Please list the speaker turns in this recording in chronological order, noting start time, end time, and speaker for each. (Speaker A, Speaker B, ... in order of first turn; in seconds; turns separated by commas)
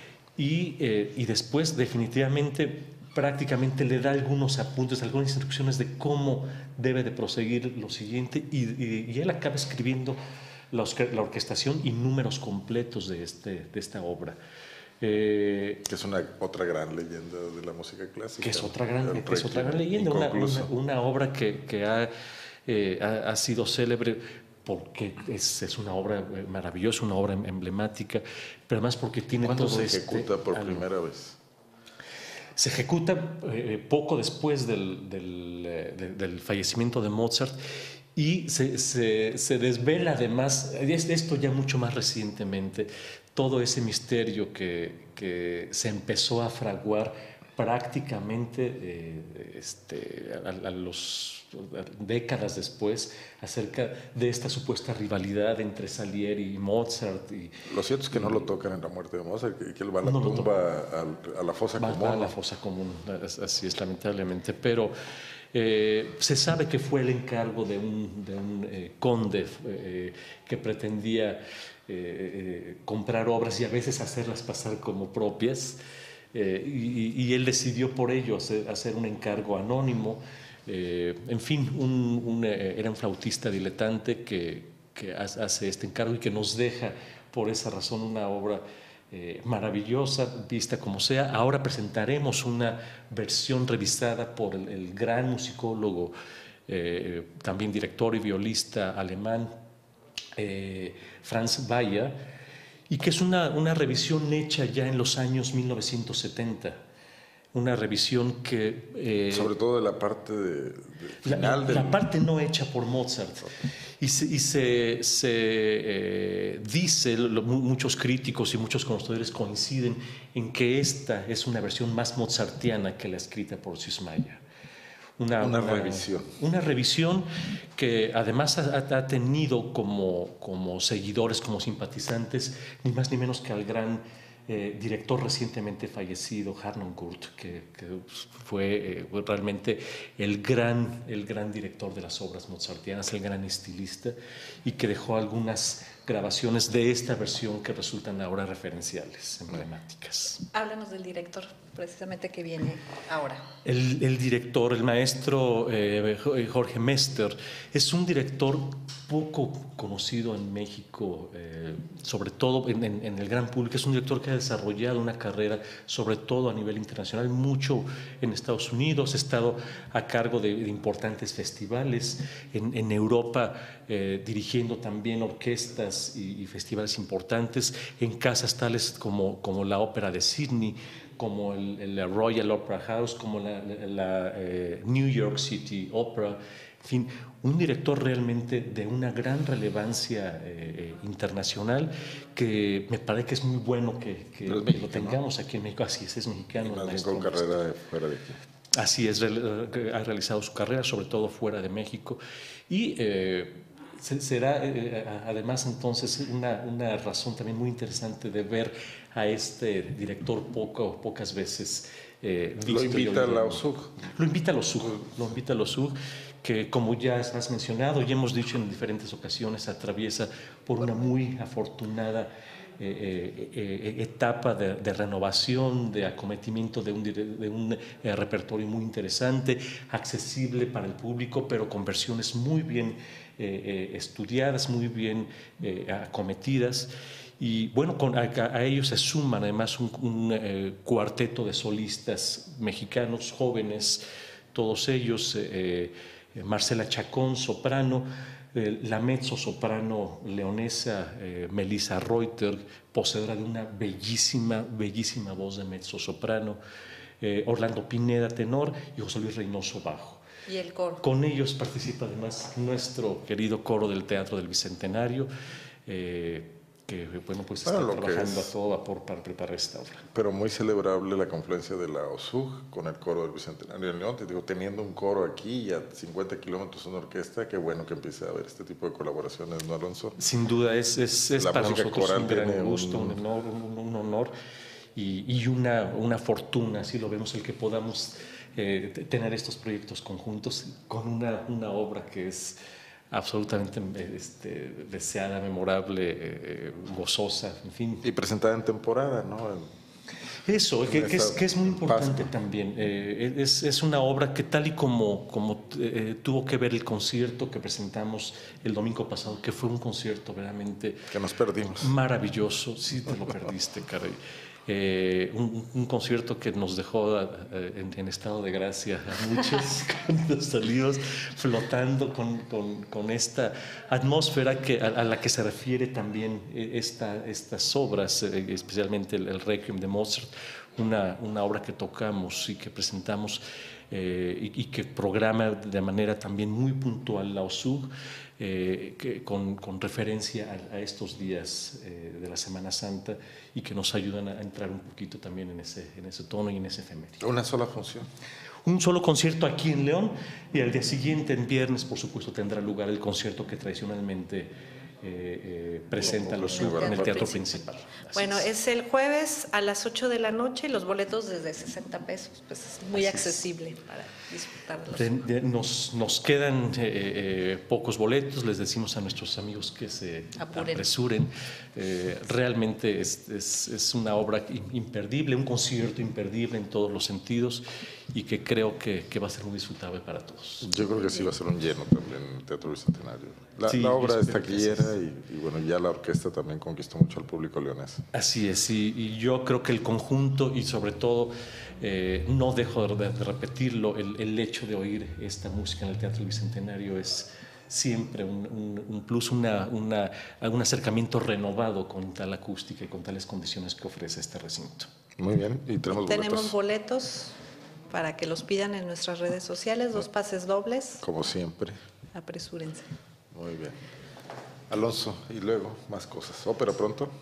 Speaker A: 0.4-10.2, Speaker A: 10.7-14.4, Speaker A: 15.0-15.8, Speaker B: 15.8-20.7, Speaker A: 18.4-22.1, Speaker A: 22.7-30.9, Speaker B: 29.4-31.4, Speaker A: 32.6-37.5, Speaker A: 38.1-57.5, Speaker B: 57.6-62.3, Speaker A: 58.1-58.5, Speaker A: 60.0-60.5, Speaker A: 61.8-64.9, Speaker A: 65.5-75.8, Speaker A: 76.3-96.1, Speaker A: 96.7-99.5, Speaker A: 100.4-102.1, Speaker A: 102.9-106.8, Speaker A: 107.5-109.5, Speaker B: 109.3-112.0, Speaker A: 111.2-113.5, Speaker A: 114.0-124.4, Speaker A: 125.2-150.4, Speaker B: 125.4-126.3, Speaker C: 150.5-153.4, Speaker A: 153.6-197.6, Speaker B: 194.4-195.2, Speaker B: 196.6-198.4, Speaker A: 198.7-244.0, Speaker B: 212.6-214.0, Speaker A: 244.5-256.6, Speaker A: 257.2-260.2, Speaker C: 260.5-261.0, Speaker A: 261.0-265.3, Speaker A: 265.9-270.1, Speaker B: 267.6-268.5, Speaker B: 270.1-280.2, Speaker A: 280.2-284.3, Speaker B: 281.4-283.2, Speaker A: 284.9-292.6, Speaker A: 293.1-298.0, Speaker B: 298.0-299.7, Speaker A: 300.4-311.1, Speaker B: 300.8-302.3, Speaker B: 311.1-311.9, Speaker A: 311.8-347.2, Speaker B: 347.2-348.1, Speaker A: 348.6-354.5, Speaker A: 355.0-358.5, Speaker B: 356.0-357.3, Speaker C: 356.0-357.6, Speaker C: 358.1-365.1, Speaker A: 362.9-363.5, Speaker A: 364.9-380.8, Speaker C: 370.4-370.9, Speaker B: 380.6-388.0, Speaker A: 383.6-384.9, Speaker A: 388.1-404.9, Speaker B: 405.2-406.6, Speaker C: 405.9-407.3, Speaker C: 407.9-411.0, Speaker B: 411.0-411.8, Speaker C: 412.1-412.9, Speaker B: 413.3-413.8, Speaker B: 414.7-417.1